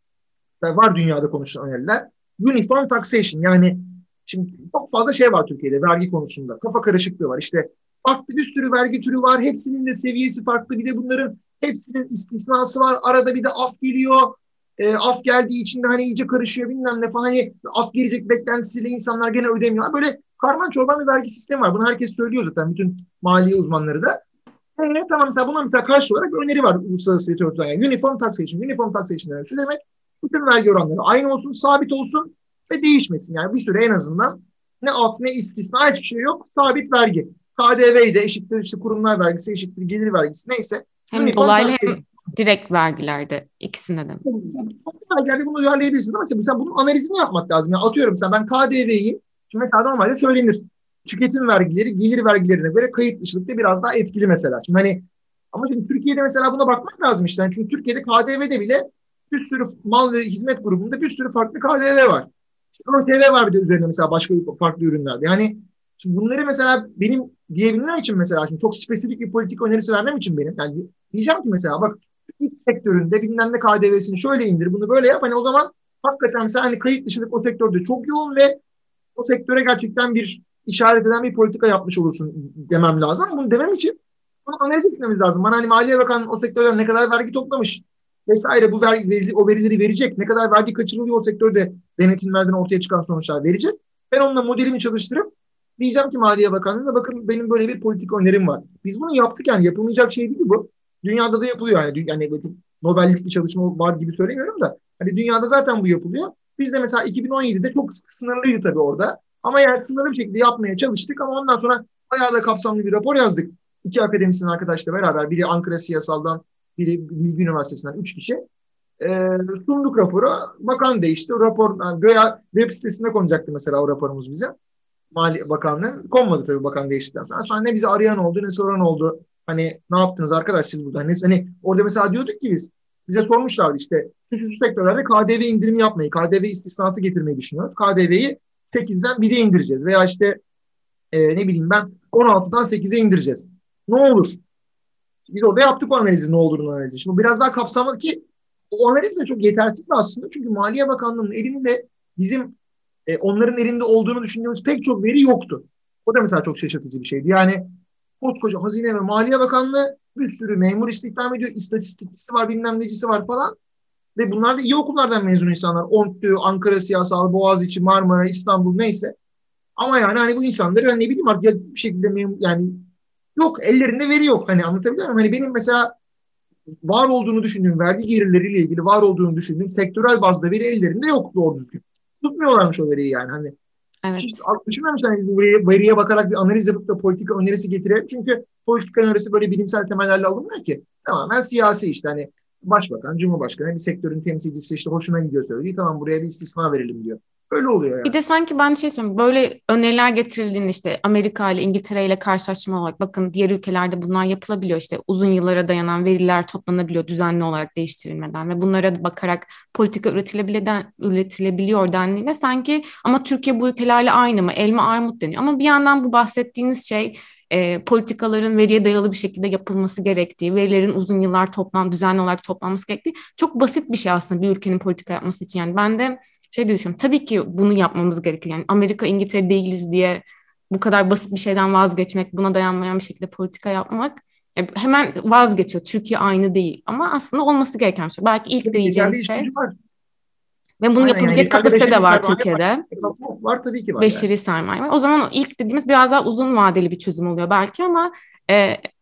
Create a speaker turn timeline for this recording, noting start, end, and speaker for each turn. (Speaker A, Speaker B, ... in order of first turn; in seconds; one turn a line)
Speaker A: 0.6-24.2
Speaker A: 24.8-42.0
Speaker B: 41.1-44.2
Speaker A: 44.2-78.6
Speaker A: 79.2-118.4
Speaker A: 119.0-124.5
Speaker A: 125.1-140.4
Speaker A: 141.1-144.4
Speaker A: 145.3-152.5
Speaker A: 153.1-163.6
Speaker A: 164.2-169.2
Speaker A: 169.8-175.9
Speaker A: 176.9-183.6
Speaker B: 184.0-184.5
Speaker A: 184.2-198.2
Speaker B: 198.0-239.5
Speaker A: 238.6-239.7
Speaker B: 240.8-242.9
Speaker A: 241.0-244.3
Speaker B: 244.0-248.8